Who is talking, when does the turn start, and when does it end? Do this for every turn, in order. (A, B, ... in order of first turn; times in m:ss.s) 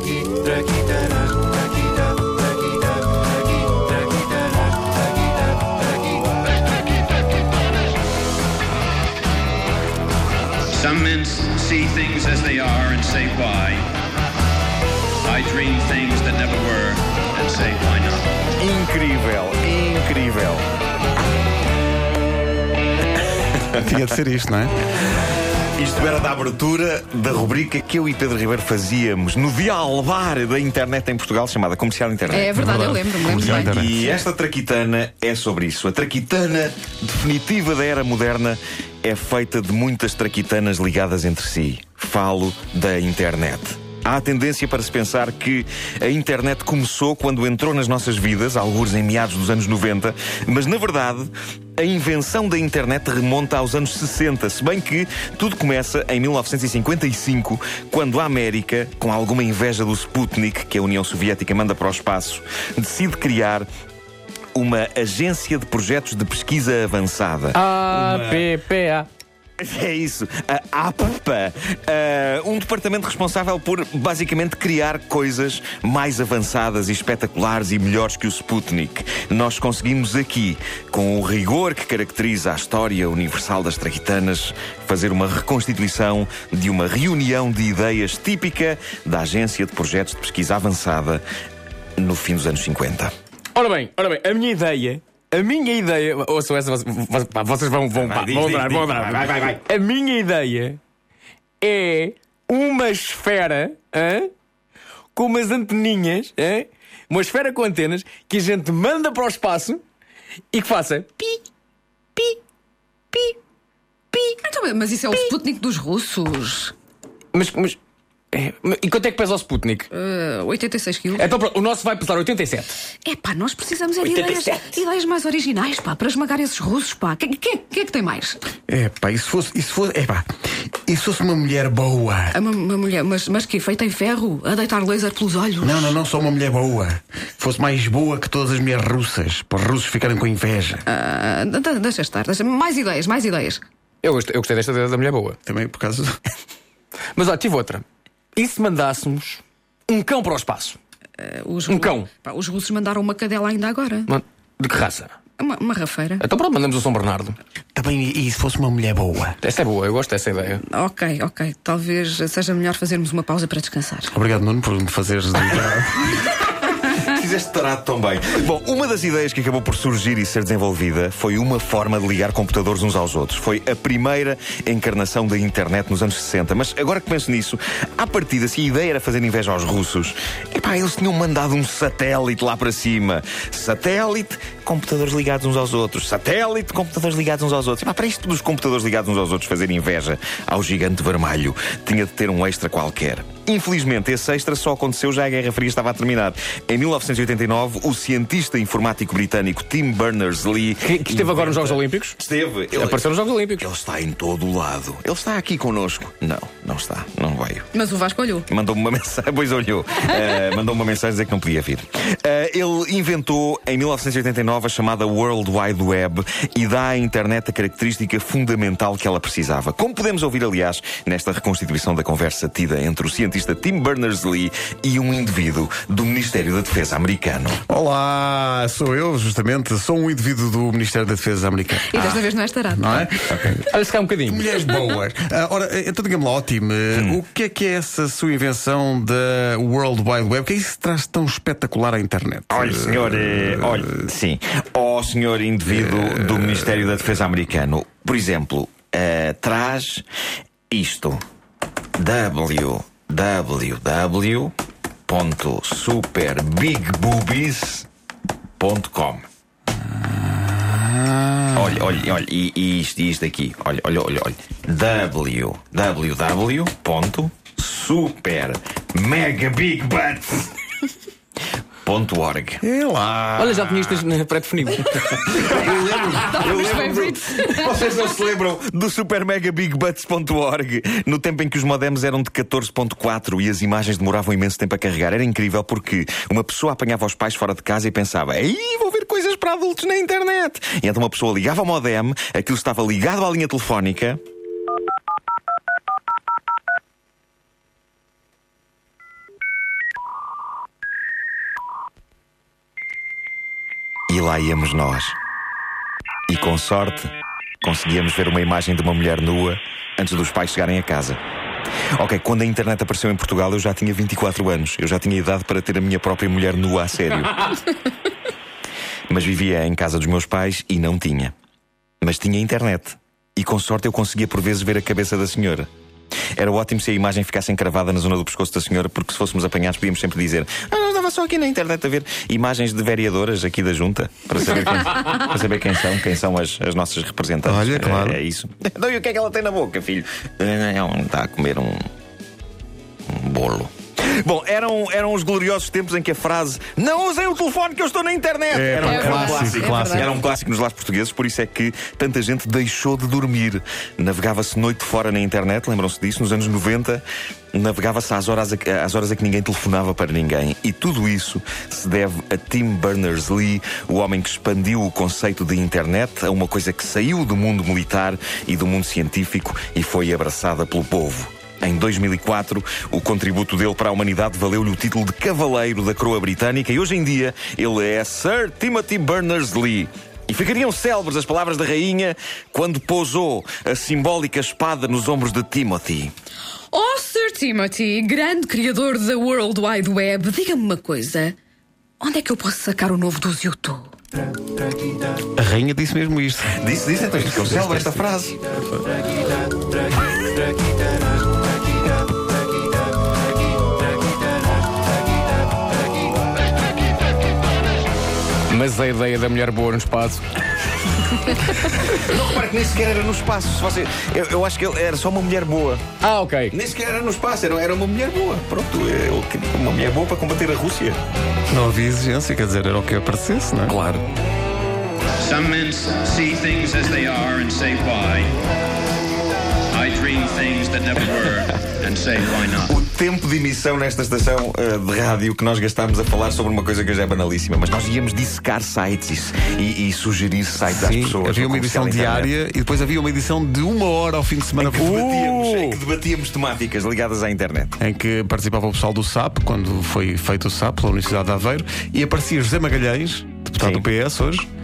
0:10.7-0:13.9 A
0:15.2-0:18.4 A
0:18.6-0:20.6 B
0:23.5-0:24.0 B
0:23.8-0:24.7 C
0:25.8-0:32.6 B
0:32.3-0:33.9 D
0:32.5-0:33.9 C
0:33.3-1:03.7 B
1:04.5-1:08.5 B
1:07.5-1:09.1 E
1:09.6-1:31.2 B
1:32.0-1:33.1 B
1:33.5-1:40.8 E
1:37.9-1:39.6 B
1:41.6-1:44.3 E
1:45.1-1:49.8 E
1:50.5-1:51.4 E
1:54.3-1:56.7 D
1:57.3-1:57.8 E
1:58.3-1:59.9 E
1:59.9-2:01.3 D
2:01.1-2:02.8 E
2:02.9-2:08.4 D
2:04.0-2:04.8 E
2:08.7-2:10.2 C
2:10.9-2:12.4 C
2:12.3-2:16.0 D
2:15.6-2:20.8 C
2:20.9-2:23.6 D
2:24.0-2:25.4 E
2:25.4-2:26.1 C
2:27.1-2:27.8 E
2:28.4-2:30.8 E
2:31.2-2:34.1 D
2:31.7-2:32.1 E
2:34.1-2:35.1 E
2:35.4-2:36.3 D
2:36.2-2:37.4 E
2:37.7-2:39.4 C
2:39.4-2:40.6 E
2:40.6-2:44.1 D
2:44.1-2:46.0 C
2:46.8-3:23.0 B
3:20.8-3:22.2 E
3:22.7-3:23.6 E
3:23.6-3:27.7 B
3:27.7-3:28.4 D
3:28.5-3:47.6 B
3:47.7-3:52.2 C
3:51.9-3:53.1 D
3:52.7-3:53.6 C
3:53.3-3:53.6 B
3:53.6-3:54.5 E
3:54.3-4:02.7 C
3:56.9-3:57.2 B
4:02.5-4:10.0 B
4:10.7-4:11.2 B
4:12.0-4:14.5 B
4:15.1-4:17.9 B
4:18.6-4:19.2 B
4:21.5-4:30.5 B
4:31.8-4:32.6 B
4:32.6-4:34.0 C
4:33.4-4:36.1 E
4:35.2-4:54.2 B
4:36.1-4:37.8 D
5:04.1-5:05.2 B
5:06.3-5:07.1 B
5:07.6-5:11.2 B
5:12.0-5:17.5 B
5:19.1-5:21.3 B
5:22.0-5:25.7 B
5:26.4-5:41.8 B
5:37.4-5:38.2 C
5:43.1-6:26.1 B
5:48.5-5:50.1 C
5:48.8-5:50.1 D
6:26.7-6:31.4 D
6:32.0-6:33.9 D
6:35.4-6:38.1 C
6:36.6-6:38.4 B
6:48.5-6:50.2 E
6:51.3-6:51.7 E
6:51.6-6:55.8 B
6:56.0-6:56.5 E
6:56.5-7:01.0 B
7:01.5-7:03.8 C
7:03.7-7:04.0 B
7:05.2-7:08.3 A
7:09.7-7:12.7 A
7:12.6-7:22.3 B
7:20.7-7:25.2 C
7:24.6-7:27.8 B
7:25.0-7:25.8 E
7:27.8-7:34.4 C
7:33.6-7:33.8 B